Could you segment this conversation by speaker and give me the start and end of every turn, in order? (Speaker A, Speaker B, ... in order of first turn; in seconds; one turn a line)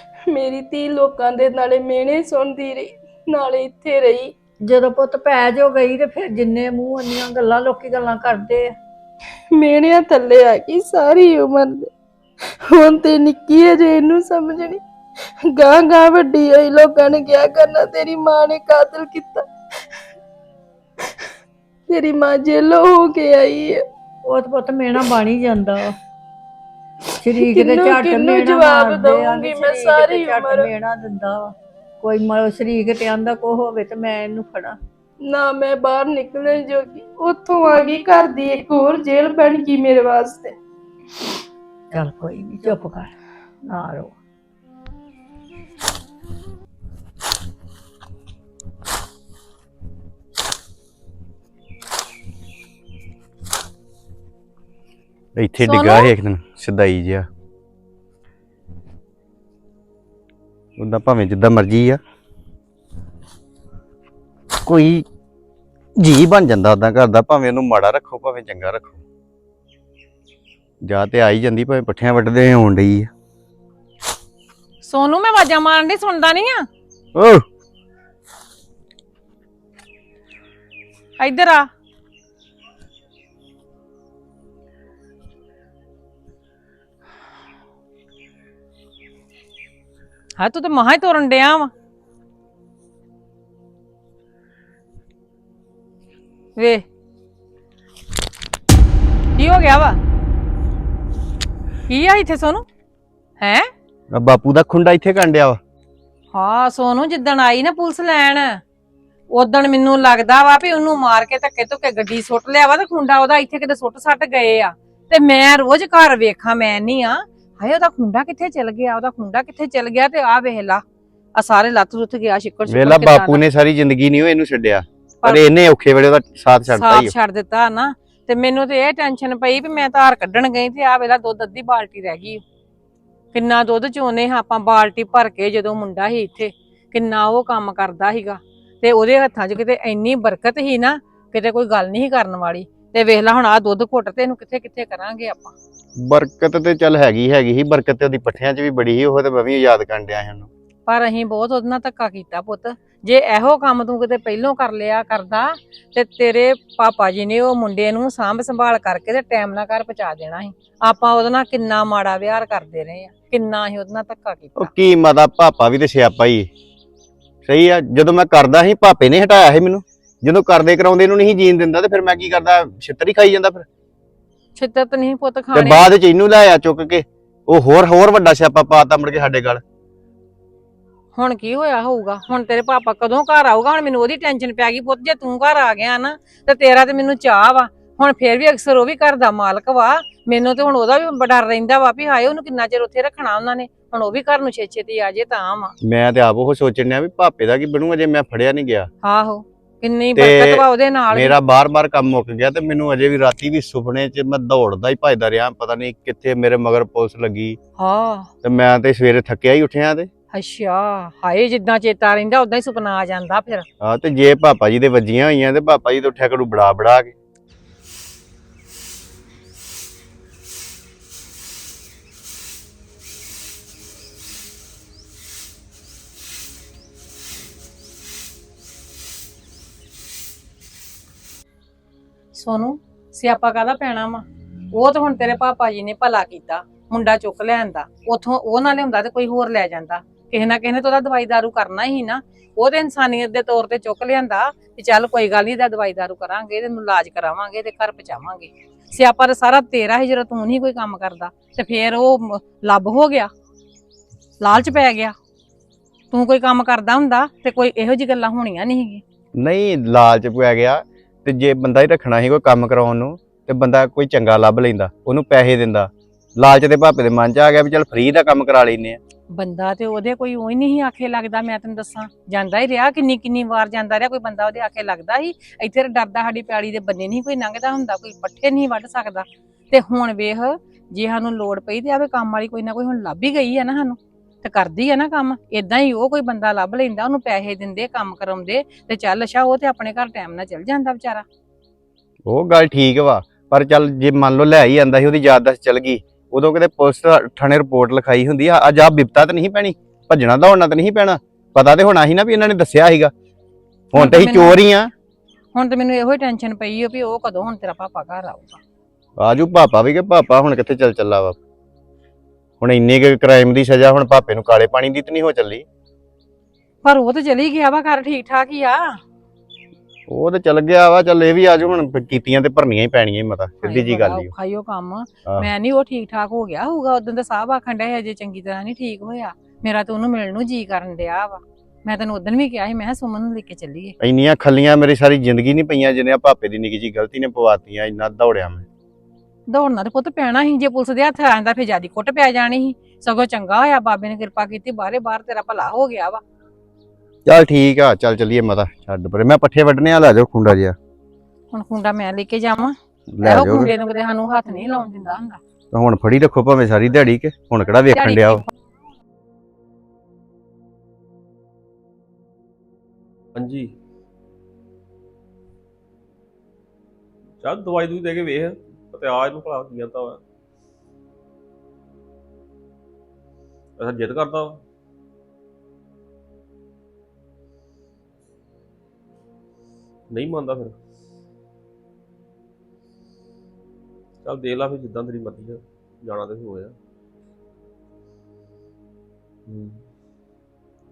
Speaker A: 0.3-4.3
Speaker B: 4.6-8.8
Speaker A: 9.6-11.9
Speaker A: 12.7-14.8
Speaker A: 15.5-19.4
Speaker A: 21.9-23.9
Speaker B: 24.2-26.0
Speaker B: 27.2-34.8
Speaker A: 27.4-30.7
Speaker A: 35.2-40.5
Speaker B: 41.9-43.1
Speaker B: 43.6-44.1
Speaker C: 55.4-57.3
Speaker D: 55.6-56.1
Speaker C: 60.8-62.0
Speaker C: 64.6-65.0
Speaker C: 66.0-69.0
Speaker C: 70.8-73.1
Speaker D: 74.8-76.7
Speaker C: 77.1-77.4
Speaker D: 81.2-81.7
Speaker D: 90.4-91.7
Speaker D: 96.5-96.8
Speaker D: 99.3-100.0
Speaker D: 101.9-102.6
Speaker D: 103.4-103.7
Speaker C: 104.1-105.6
Speaker D: 106.3-108.6
Speaker D: 109.3-120.8
Speaker D: 121.3-123.4
Speaker C: 122.7-127.1
Speaker D: 126.8-132.4
Speaker D: 133.3-145.5
Speaker C: 146.0-150.5
Speaker D: 150.9-164.7
Speaker C: 164.6-166.5
Speaker C: 167.4-173.7
Speaker D: 174.5-175.9
Speaker C: 175.5-179.6
Speaker D: 181.1-195.7
Speaker C: 195.8-198.9
Speaker D: 199.0-201.3
Speaker C: 200.2-207.6
Speaker D: 207.8-208.3
Speaker C: 208.4-210.1
Speaker D: 210.3-213.7
Speaker C: 213.8-217.1
Speaker D: 232.3-253.3
Speaker D: 254.4-255.1
Speaker D: 256.1-259.0
Speaker C: 259.4-269.0
Speaker D: 269.3-291.2
Speaker C: 292.3-303.1
Speaker C: 303.9-304.9
Speaker D: 303.9-304.6
Speaker D: 305.5-308.6
Speaker C: 309.2-311.4
Speaker C: 312.6-315.6
Speaker D: 316.8-319.0
Speaker C: 320.1-324.3
Speaker D: 323.6-333.9
Speaker C: 334.0-338.6
Speaker D: 339.5-346.2
Speaker C: 347.2-350.8
Speaker D: 351.5-355.4
Speaker C: 353.1-353.7
Speaker C: 355.7-358.4
Speaker D: 357.9-358.5
Speaker E: 363.4-363.7
Speaker E: 367.4-370.2
Speaker E: 373.8-374.6
Speaker E: 380.1-380.8
Speaker E: 384.2-386.8
Speaker E: 389.5-389.8